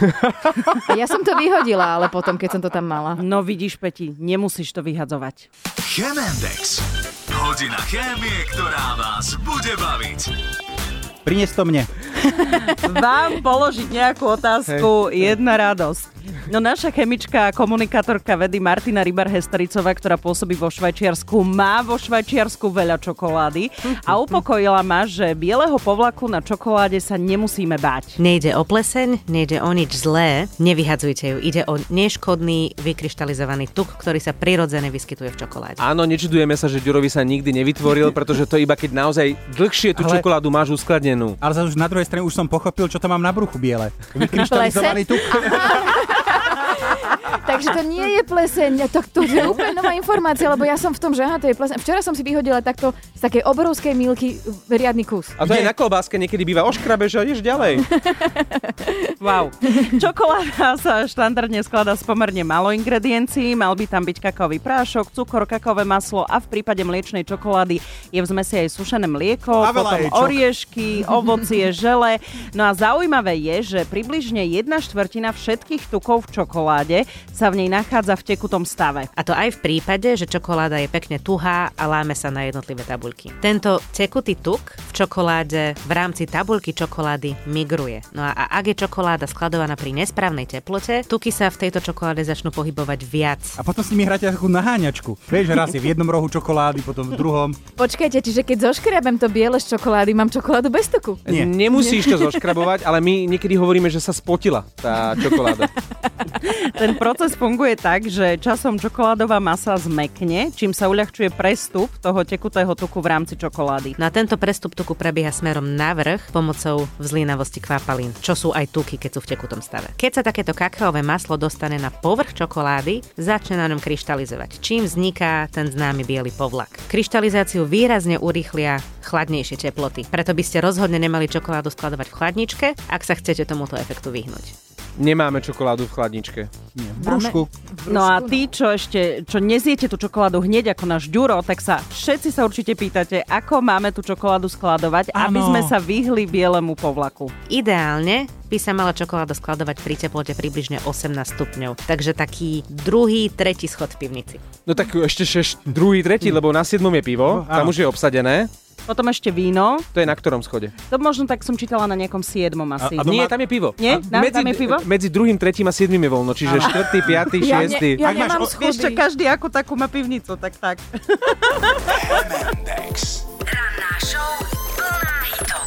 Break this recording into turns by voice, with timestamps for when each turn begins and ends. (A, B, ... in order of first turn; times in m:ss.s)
0:00.2-0:00.5 A
0:00.9-0:03.2 B
0:03.2-0:05.5 C
0:05.8-0:10.3 D
0:11.2-0:12.5 E
0:12.7-0:28.2 C
0:28.2-0:35.8 F
0:35.8-0:41.4 A
0:39.9-0:40.3 E
0:41.4-0:46.1 E
0:44.4-0:55.4 B
0:55.4-0:57.8 A
0:55.4-0:55.7 E
0:57.8-0:59.1 B
0:59.2-1:19.1 C
1:09.6-1:10.4 E
1:19.2-1:33.6 F
1:33.6-1:37.6 E
1:37.8-1:42.6 B
1:41.3-1:41.5 E
1:41.3-1:45.7 A
1:46.3-1:54.0 C
1:54.0-2:14.6 F
2:15.0-2:16.5 A
2:16.8-2:17.5 E
2:17.0-2:18.4 B
2:17.9-2:27.3 C
2:25.1-2:25.8 E
2:27.5-2:34.5 F
2:34.6-2:38.5 A
2:37.2-2:37.8 E
2:38.9-2:39.9 C
2:39.9-2:40.7 A
2:40.8-2:44.8 C
2:42.8-2:43.3 E
2:43.0-2:48.0 A
2:46.4-2:48.6 E
2:47.4-2:49.0 B
2:48.0-2:52.4 C
2:52.3-2:53.3 D
2:53.6-2:54.4 F
2:55.1-2:55.4 F